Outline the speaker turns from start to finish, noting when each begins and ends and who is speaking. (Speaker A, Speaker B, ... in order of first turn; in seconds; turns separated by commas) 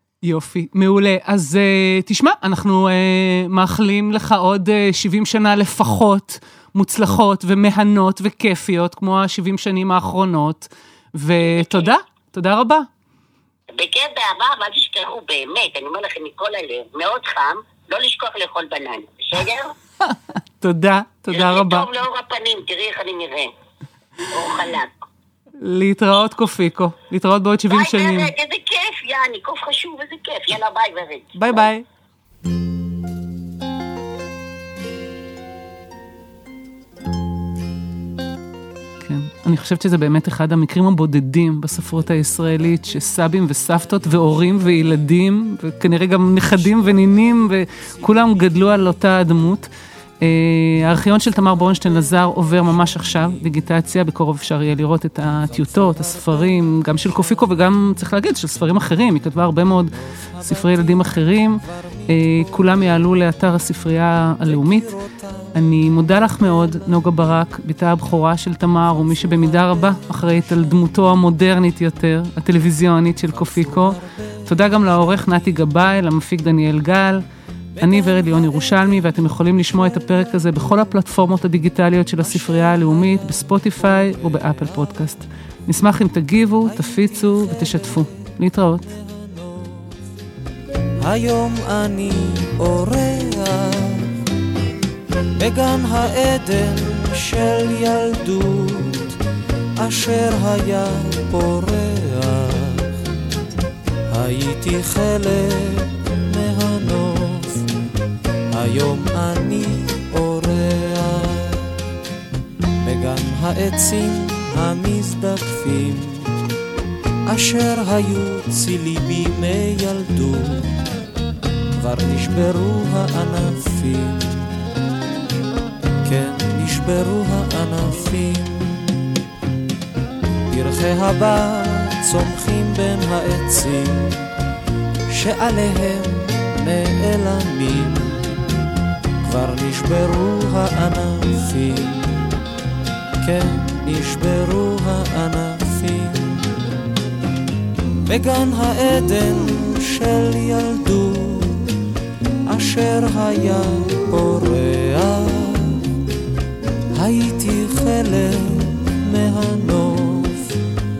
Speaker A: 0.2-12.9, Speaker B: 11.4-11.9, Speaker B: 13.7-19.7, Speaker A: 20.6-21.9, Speaker B: 21.3-23.5, Speaker B: 24.3-24.9, Speaker A: 25.6-28.3, Speaker B: 27.7-31.6, Speaker A: 31.4-31.8, Speaker A: 39.0-49.7, Speaker C: 46.4-48.8, Speaker A: 50.2-64.9, Speaker C: 51.2-53.5, Speaker C: 55.3-57.7, Speaker C: 59.9-63.0, Speaker C: 64.4-67.4, Speaker A: 65.5-77.2, Speaker C: 68.8-71.2, Speaker C: 73.2-75.7, Speaker C: 77.7-80.9, Speaker A: 77.8-88.9, Speaker C: 82.2-85.1, Speaker C: 86.3-90.0, Speaker C: 91.0-94.1, Speaker C: 95.4-99.2, Speaker C: 99.8-103.0, Speaker C: 104.1-107.7, Speaker C: 108.5-111.7, Speaker C: 112.8-116.3, Speaker C: 117.3-120.7, Speaker C: 121.8-124.5, Speaker C: 126.0-128.9, Speaker C: 130.5-134.2, Speaker C: 135.1-138.2, Speaker C: 139.2-142.2, Speaker C: 143.2-146.5, Speaker C: 148.1-151.7, Speaker C: 152.5-155.9, Speaker C: 156.9-160.5